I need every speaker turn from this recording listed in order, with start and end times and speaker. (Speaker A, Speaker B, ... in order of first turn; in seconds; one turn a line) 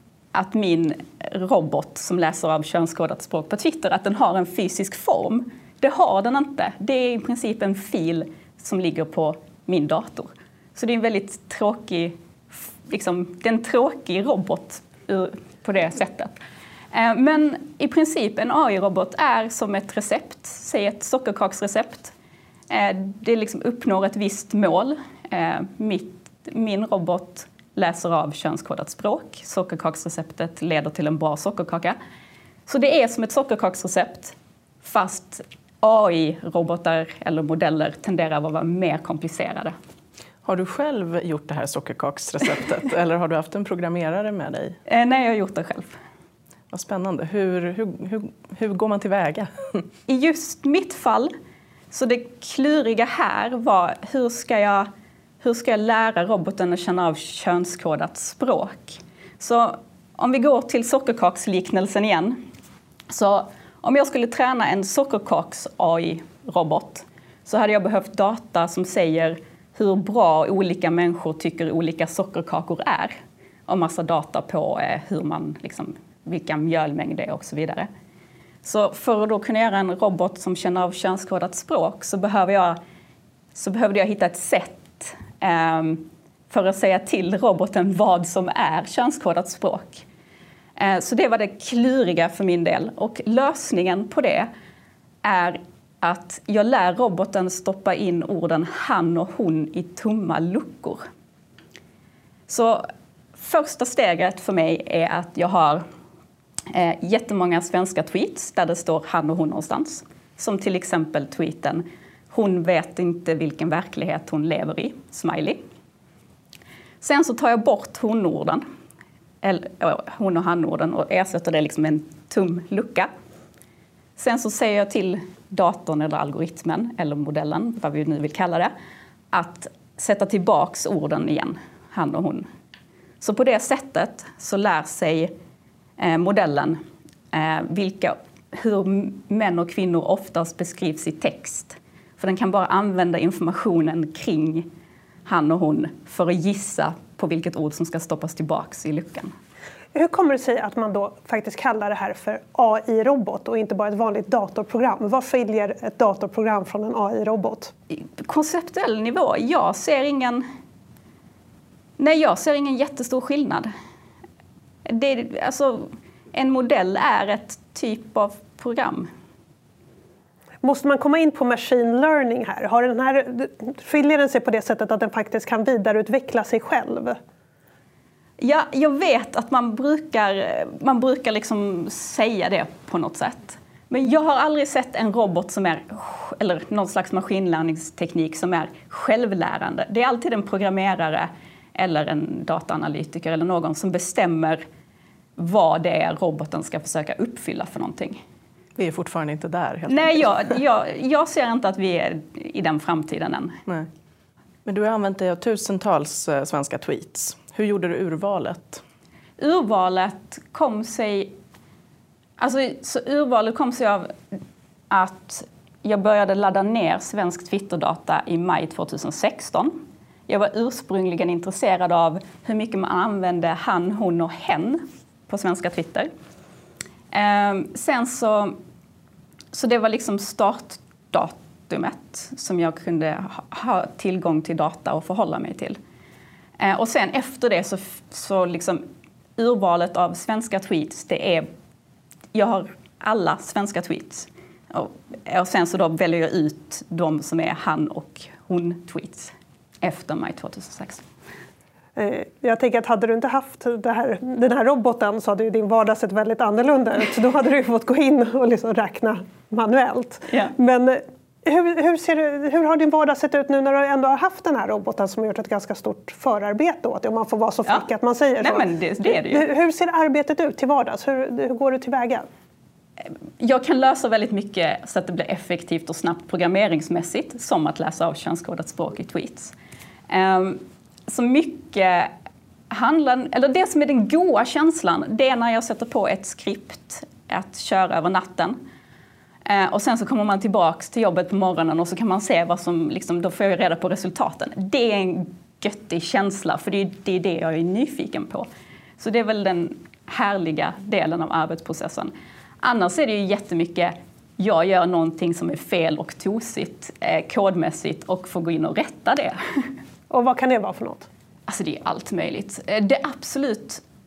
Speaker A: 0.3-16.4
Speaker A: 16.9-22.1
Speaker A: 22.7-32.0
Speaker A: 32.7-39.7
Speaker B: 40.5-44.8
Speaker A: 44.9-45.9
Speaker B: 46.7-49.9
Speaker A: 50.1-51.3
Speaker A: 51.9-54.9
Speaker A: 55.4-62.4
Speaker A: 63.1-73.1
Speaker A: 73.7-77.9
Speaker A: 78.6-82.8
Speaker A: 83.5-90.1
Speaker A: 90.8-94.5
Speaker A: 95.2-101.0
Speaker A: 102.5-105.8
Speaker A: 106.7-115.6
Speaker A: 117.0-118.6
Speaker A: 119.4-123.1
Speaker A: 124.2-128.7
Speaker A: 129.3-132.5
Speaker A: 133.2-135.3
Speaker A: 136.0-136.8
Speaker A: 137.3-144.7
Speaker A: 145.2-149.3
Speaker C: 149.9-157.7
Speaker A: 157.9-160.4
Speaker A: 162.0-163.7
Speaker A: 164.8-169.1
Speaker C: 170.6-177.2
Speaker A: 178.4-194.6
Speaker A: 195.4-198.2
Speaker B: 198.8-200.6
Speaker A: 199.9-203.6
Speaker B: 204.7-208.8
Speaker A: 209.4-211.3
Speaker A: 212.4-214.4
Speaker A: 214.9-226.1
Speaker A: 227.1-228.6
Speaker A: 229.5-235.8
Speaker A: 236.6-238.8
Speaker A: 239.4-241.5
Speaker A: 242.3-251.1
Speaker C: 252.0-272.3
Speaker A: 260.3-260.5
Speaker A: 268.4-269.5
Speaker A: 273.1-279.6
Speaker A: 280.1-282.1
Speaker A: 282.7-288.6
Speaker A: 289.5-298.5
Speaker A: 299.0-309.7
Speaker C: 310.1-311.1
Speaker A: 311.5-313.8